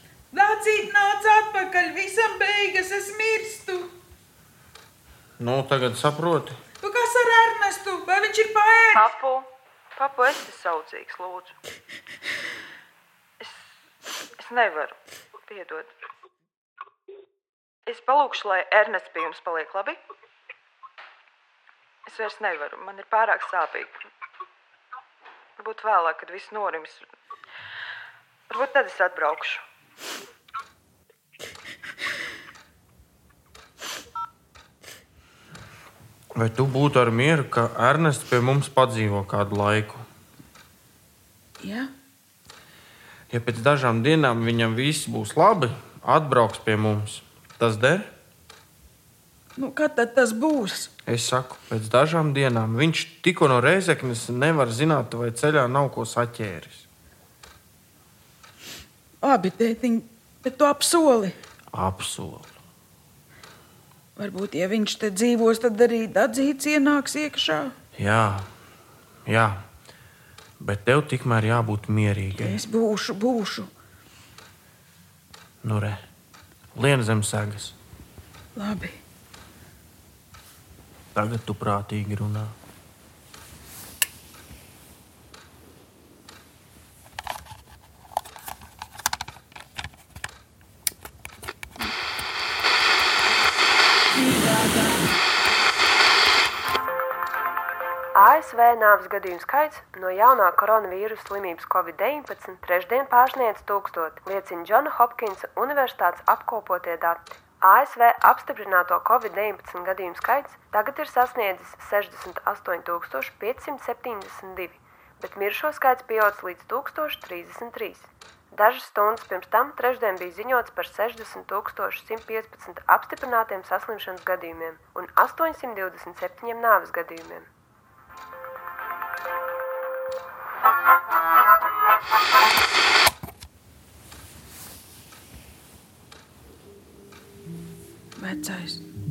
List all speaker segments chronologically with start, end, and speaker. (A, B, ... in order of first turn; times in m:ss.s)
0:00.3-0:03.9 A
0:05.4-0:06.6 B
0:06.8-0:09.1 A
0:08.9-0:11.5 C
0:14.4-0:15.9 C
0:17.8-0:20.0 C
0:22.0-0:23.9 C
0:25.6-0:27.0 C
0:28.5-0:29.6 C
0:36.4-0:40.0 B
0:41.6-0:41.9 A
0:43.3-0:48.1 B
0:49.6-0:50.9 A
0:51.0-0:56.9 B
0:59.2-1:01.3 A
1:01.7-1:02.5 B
1:04.2-1:07.7 A
1:08.0-1:08.4 B
1:09.3-1:09.6 B
1:10.6-1:12.6 B
1:12.4-1:13.7 A
1:15.6-1:16.0 B
1:16.7-1:17.8 B
1:18.6-1:19.0 A
1:21.1-1:22.5 B
1:38.1-2:07.5 D
2:18.2-2:18.8 A